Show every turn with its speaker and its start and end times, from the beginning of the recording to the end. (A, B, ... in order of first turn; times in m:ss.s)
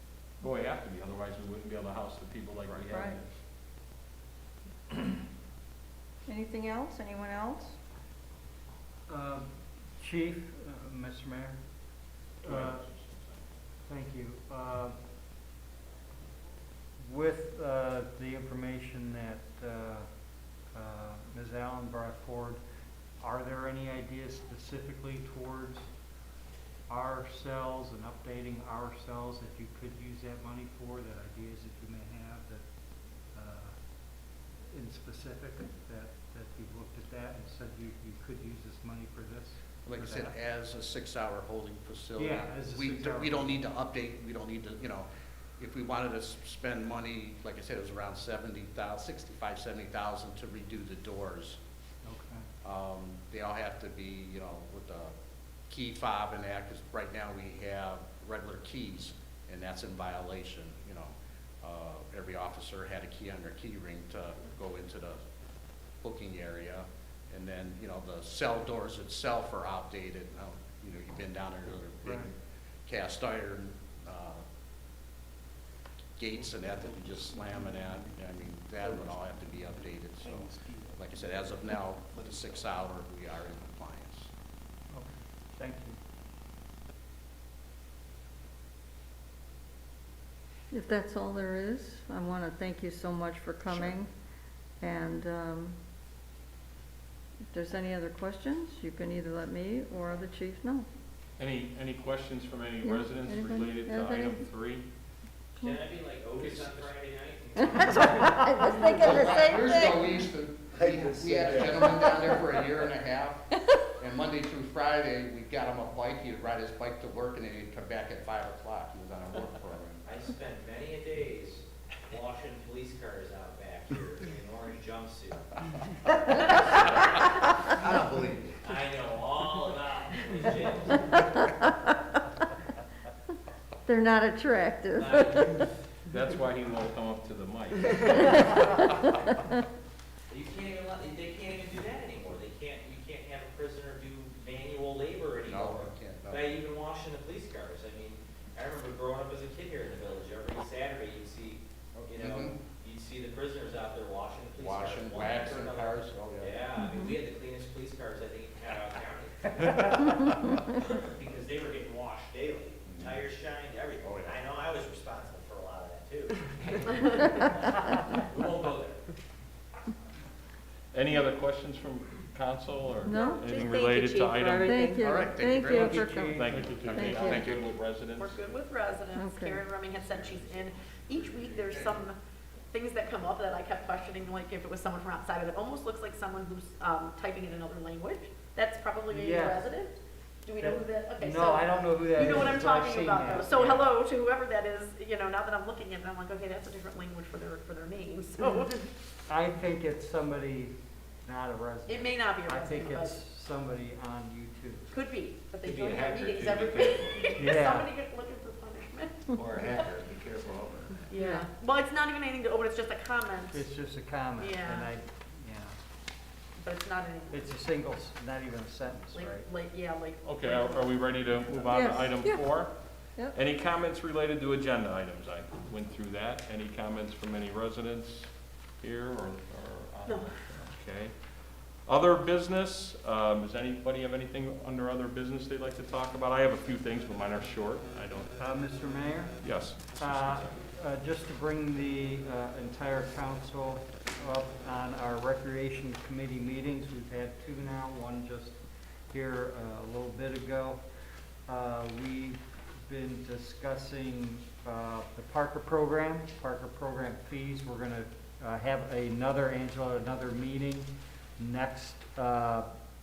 0:00.4-0:03.3 A
0:02.9-0:03.2 B
0:06.3-0:07.8 B
0:09.1-0:09.5 C
0:10.0-0:11.6 C
0:12.4-0:12.8 C
0:12.4-0:13.4 A
0:13.9-0:14.9 C
0:17.0-0:20.1 C
0:20.7-0:22.6 C
0:23.2-0:25.8 C
0:26.9-0:32.6 C
0:33.3-0:33.8 C
0:34.7-0:40.3 C
0:39.8-0:45.1 D
0:42.2-0:43.6 C
0:45.6-0:51.6 D
0:52.0-0:52.4 C
0:52.6-0:55.1 D
0:55.7-1:05.2 D
1:06.0-1:12.3 D
1:12.0-1:12.3 C
1:12.9-1:14.4 D
1:16.2-1:24.3 D
1:18.8-1:19.1 E
1:20.2-1:21.4 E
1:22.1-1:22.7 E
1:24.9-1:26.0 C
1:30.7-1:34.1 B
1:34.8-1:35.8 B
1:37.4-1:40.9 B
1:41.4-1:44.8 A
1:42.8-1:44.5 B
1:45.6-1:48.4 F
1:46.3-1:46.9 A
1:47.8-1:50.0 B
1:48.9-1:53.5 D
1:50.7-1:52.6 E
1:54.0-2:00.0 D
2:00.0-2:05.5 F
2:07.8-2:08.3 D
2:07.8-2:08.5 E
2:08.6-2:11.3 F
2:13.9-2:15.6 B
2:14.9-2:15.6 F
2:16.1-2:18.5 A
2:18.0-2:18.4 B
2:20.3-2:40.1 F
2:25.5-2:26.6 D
2:32.0-2:32.6 D
2:34.6-2:36.6 D
2:36.8-2:37.2 B
2:40.7-2:49.0 F
2:42.9-2:43.2 D
2:44.0-2:44.4 D
2:50.9-2:55.0 A
2:53.0-2:57.5 B
2:55.0-2:57.7 D
2:55.6-2:56.9 C
2:56.3-2:58.5 A
2:58.2-3:02.2 G
2:59.1-2:59.6 B
3:00.0-3:02.0 D
3:02.7-3:18.9 G
3:09.1-3:09.6 C
3:10.6-3:13.9 C
3:19.3-3:20.7 C
3:21.2-3:24.9 C
3:21.9-3:23.2 G
3:24.9-3:30.0 G
3:25.6-3:27.5 F
3:27.4-3:27.9 C
3:29.4-3:31.1 E
3:31.1-3:33.6 G
3:33.5-3:35.8 C
3:34.4-3:34.9 G
3:36.6-3:37.5 G
3:37.3-3:39.5 C
3:39.1-3:41.7 G
3:40.2-3:42.7 A
3:41.7-3:42.5 B
3:43.3-3:51.2 A
3:50.0-3:50.4 G
3:51.8-3:58.3 A
3:58.4-3:59.4 C
3:59.4-4:00.6 A
3:59.9-4:08.6 C
4:09.1-4:10.8 C
4:11.5-4:22.7 C